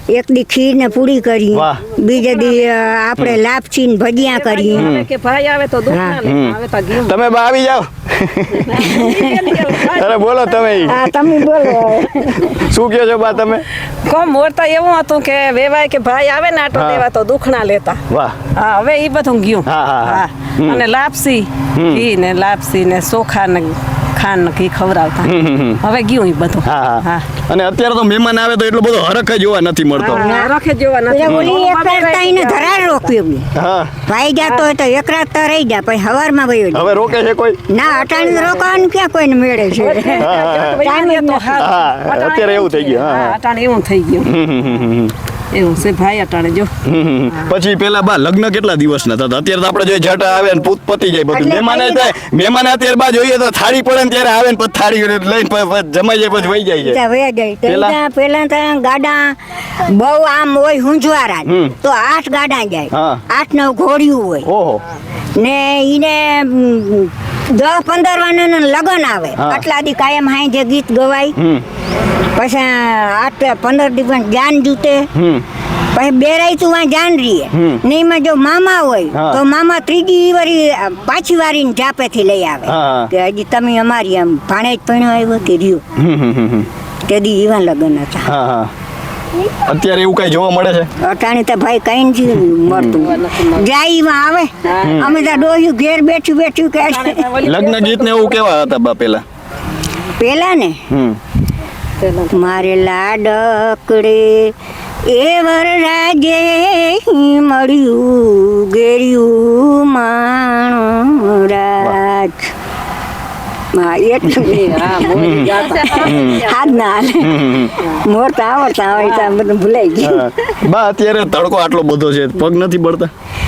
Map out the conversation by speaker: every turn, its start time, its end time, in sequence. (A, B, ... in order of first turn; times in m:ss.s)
0:00.1-0:04.9 A
0:01.5-0:01.8 B
0:04.3-0:07.1 C
0:04.7-0:05.1 B
0:05.9-0:06.2 A
0:06.2-0:08.9 B
0:08.6-0:10.9 C
0:08.8-0:09.5 A
0:09.6-0:13.6 B
0:10.8-0:12.5 A
0:14.0-0:18.0 C
0:16.7-0:17.0 B
0:18.1-0:18.4 B
0:18.5-0:27.2 C
0:19.6-0:20.8 B
0:21.7-0:22.0 B
0:25.2-0:25.8 B
0:26.6-0:30.3 B
0:30.0-0:33.1 C
0:30.0-0:30.5 A
0:31.1-0:33.5 A
0:31.2-0:31.5 B
0:33.5-0:34.0 B
0:34.0-0:37.2 A
0:34.4-0:34.6 C
0:36.7-0:37.6 B
0:37.7-0:41.6 A
0:38.0-0:38.6 C
0:39.7-0:44.3 C
0:40.2-0:40.8 B
0:41.6-0:43.4 B
0:44.2-0:45.1 B
0:45.5-0:46.7 C
0:46.8-0:57.0 B
0:51.3-0:52.1 A
0:56.8-1:04.5 A
0:57.7-0:58.0 B
1:01.4-1:01.7 B
1:02.9-1:03.2 B
1:04.4-1:04.8 B
1:05.4-1:11.4 A
1:09.4-1:09.6 B
1:11.4-1:11.6 B
1:12.3-1:15.1 A
1:15.1-1:15.4 B
1:15.9-1:25.8 A
1:17.5-1:17.8 B
1:19.1-1:19.4 B
1:22.7-1:23.1 B
1:26.0-1:26.7 B
1:27.1-1:28.3 A
1:28.2-1:28.7 B
1:29.6-1:30.9 B
1:31.0-1:37.3 A
1:32.7-1:33.0 B
1:33.0-1:33.6 C
1:34.6-1:35.1 C
1:34.8-1:35.1 B
1:36.8-1:38.4 C
1:37.4-1:39.2 B
1:40.1-1:40.8 A
1:40.9-1:41.2 B
1:42.1-1:44.5 A
1:45.1-1:52.5 A
1:53.7-2:00.3 A
1:54.5-1:56.6 C
1:55.2-1:56.4 B
1:57.2-1:57.7 B
2:00.0-2:03.1 B